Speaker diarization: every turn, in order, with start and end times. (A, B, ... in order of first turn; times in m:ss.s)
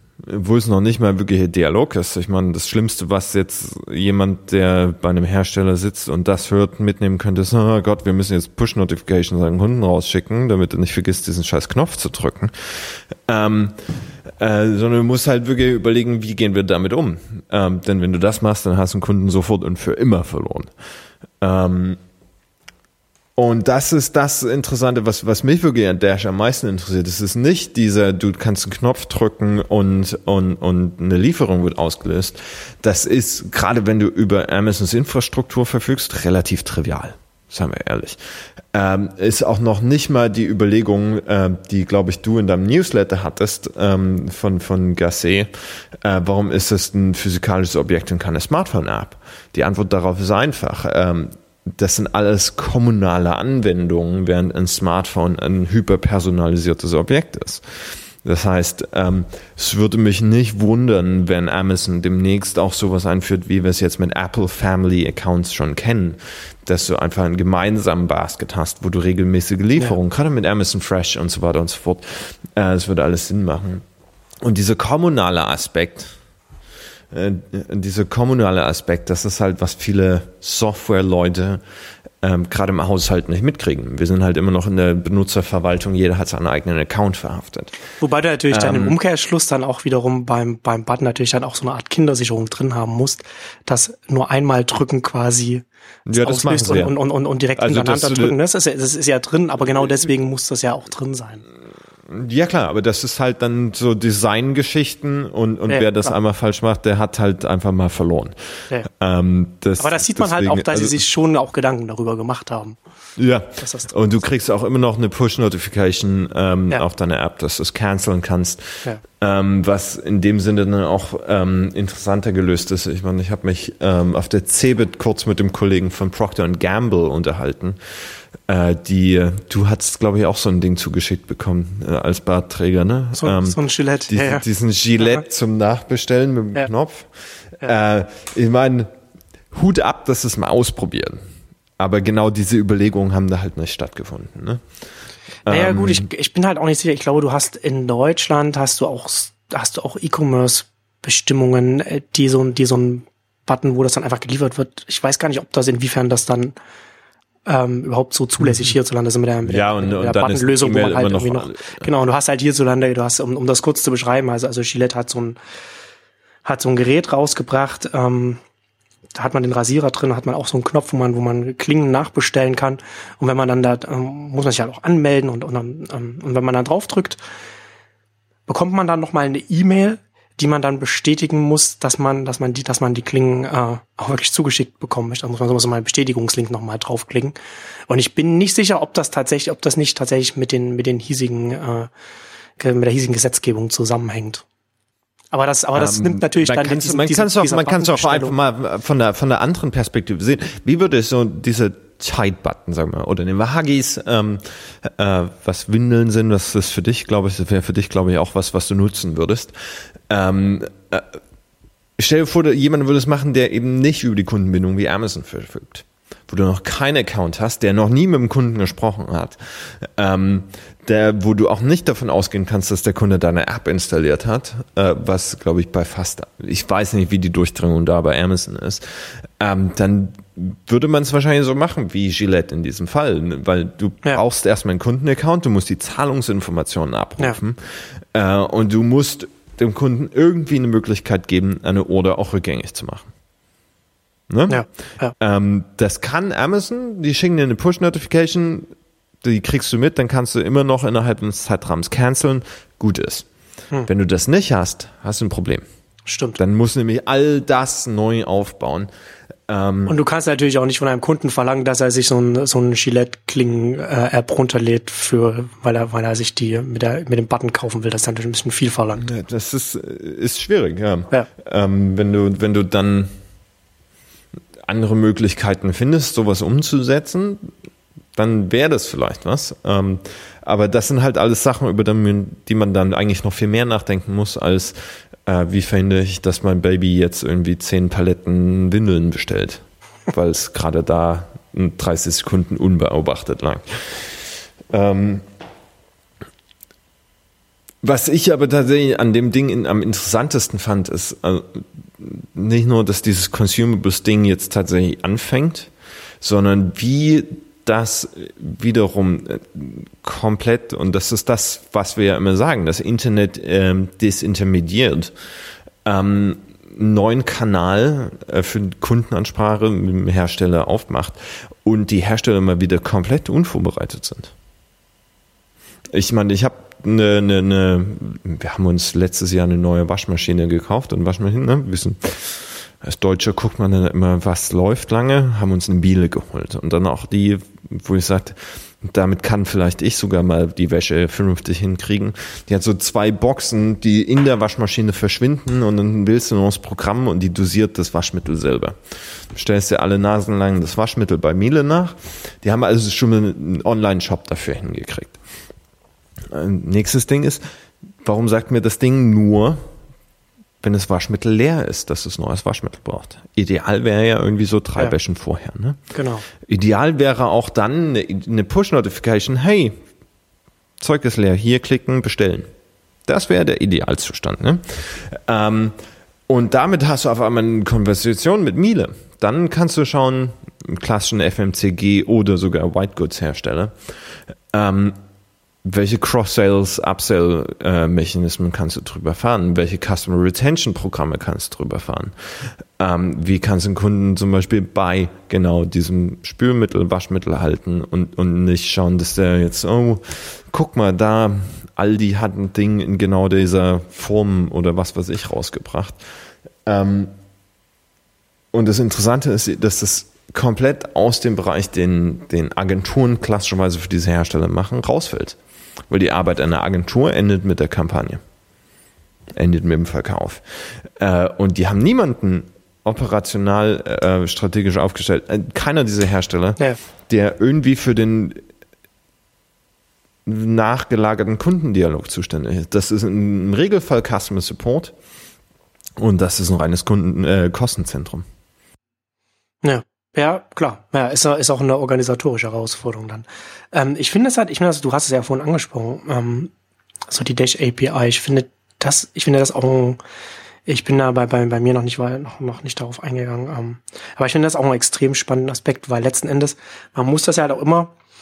0:00.2-0:13.8 A
0:14.4-0:20.7 A
0:21.4-0:22.0 A
0:23.4-0:38.2 A
0:38.7-0:45.5 A
0:46.0-1:13.8 A
1:14.4-1:16.1 A
1:17.1-1:21.6 A
1:22.2-1:27.7 A
1:28.0-1:41.4 B
1:28.5-1:29.0 A
1:36.1-1:36.9 A
1:37.6-1:38.4 A
1:42.1-1:51.0 A
1:45.7-1:46.1 B
1:49.8-1:52.8 B
1:53.2-2:07.8 A
1:53.6-1:53.9 B
2:08.5-2:13.6 A
2:13.2-2:14.4 B
2:14.1-2:18.9 A
2:19.5-2:21.2 A
2:21.8-2:24.6 A
2:25.4-2:26.1 A
2:25.5-2:36.6 B
2:37.4-2:45.4 B
2:39.4-2:41.9 A
2:46.4-2:48.4 B
2:49.1-2:57.2 B
2:58.5-3:07.4 B
3:07.9-3:11.9 B
3:12.6-3:14.4 B
3:15.3-3:18.3 B
3:15.8-3:29.5 A
3:30.1-3:31.2 A
3:32.0-4:03.1 A
4:04.3-4:08.7 A
4:04.5-4:05.1 B
4:09.2-4:13.2 A
4:13.8-4:15.6 A
4:16.0-4:16.4 B
4:16.4-4:18.9 A
4:19.5-4:20.0 A
4:19.9-4:29.0 B
4:29.0-4:33.1 A
4:34.7-4:37.5 A
4:38.2-4:54.1 A
4:54.7-4:55.2 A
4:57.8-5:15.1 A
5:15.8-5:24.3 A
5:25.9-5:48.8 A
5:49.3-5:55.2 A
5:56.3-5:57.4 A
5:58.0-5:59.6 A
6:00.6-6:05.8 A
6:05.9-6:06.2 B
6:06.4-6:09.8 A
6:10.8-6:12.5 A
6:13.1-6:15.8 A
6:16.3-6:23.7 A
6:24.5-6:25.0 A
6:25.6-6:32.1 A
6:32.8-6:46.0 A
6:46.6-6:47.1 A
6:48.5-6:55.4 A
6:55.9-6:58.2 A
6:59.3-7:00.4 A
7:01.0-7:08.4 A
7:10.2-7:14.9 A
7:16.0-7:18.2 A
7:19.6-7:26.5 B
7:27.1-7:30.0 B
7:30.6-7:37.9 B